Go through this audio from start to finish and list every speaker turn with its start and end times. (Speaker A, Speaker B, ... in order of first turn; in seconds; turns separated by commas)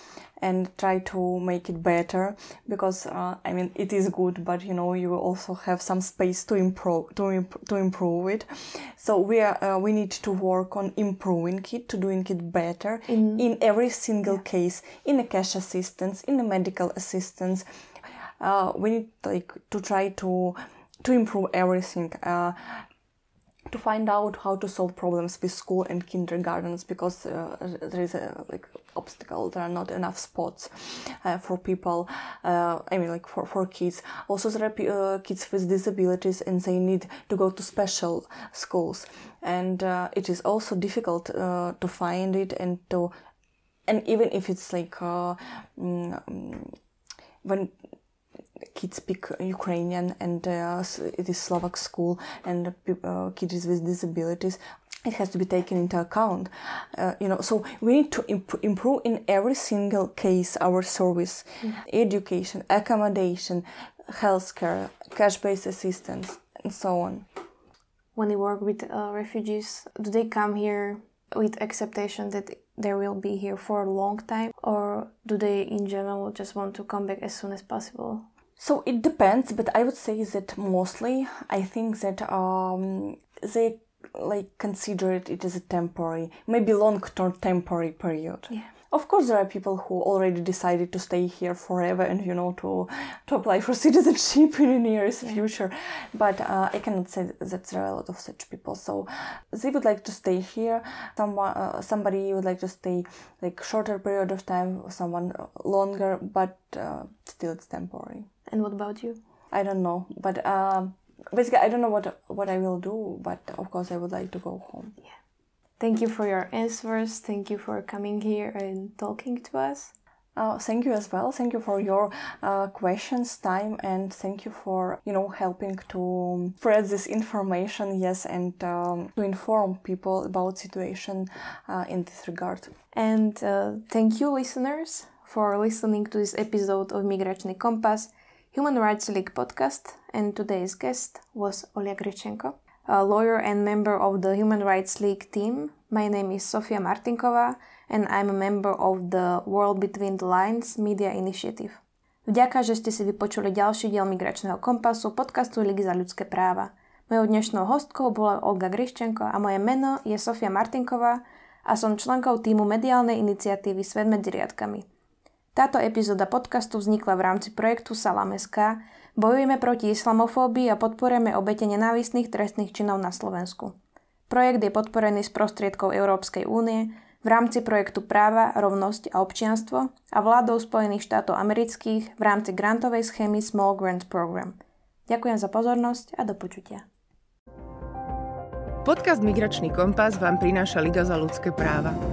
Speaker A: 0.4-17.6, Speaker B: 13.1-13.4, Speaker A: 18.4-22.8, Speaker A: 23.7-43.1, Speaker A: 43.9-46.8, Speaker A: 47.4-47.8, Speaker A: 48.6-67.3, Speaker B: 68.2-78.3, Speaker A: 78.6-108.3, Speaker B: 108.5-109.2, Speaker A: 109.5-115.0, Speaker B: 115.8-119.9, Speaker A: 120.4-132.8, Speaker B: 132.9-164.9, Speaker B: 165.5-173.8, Speaker B: 174.3-186.9, Speaker C: 188.8-192.0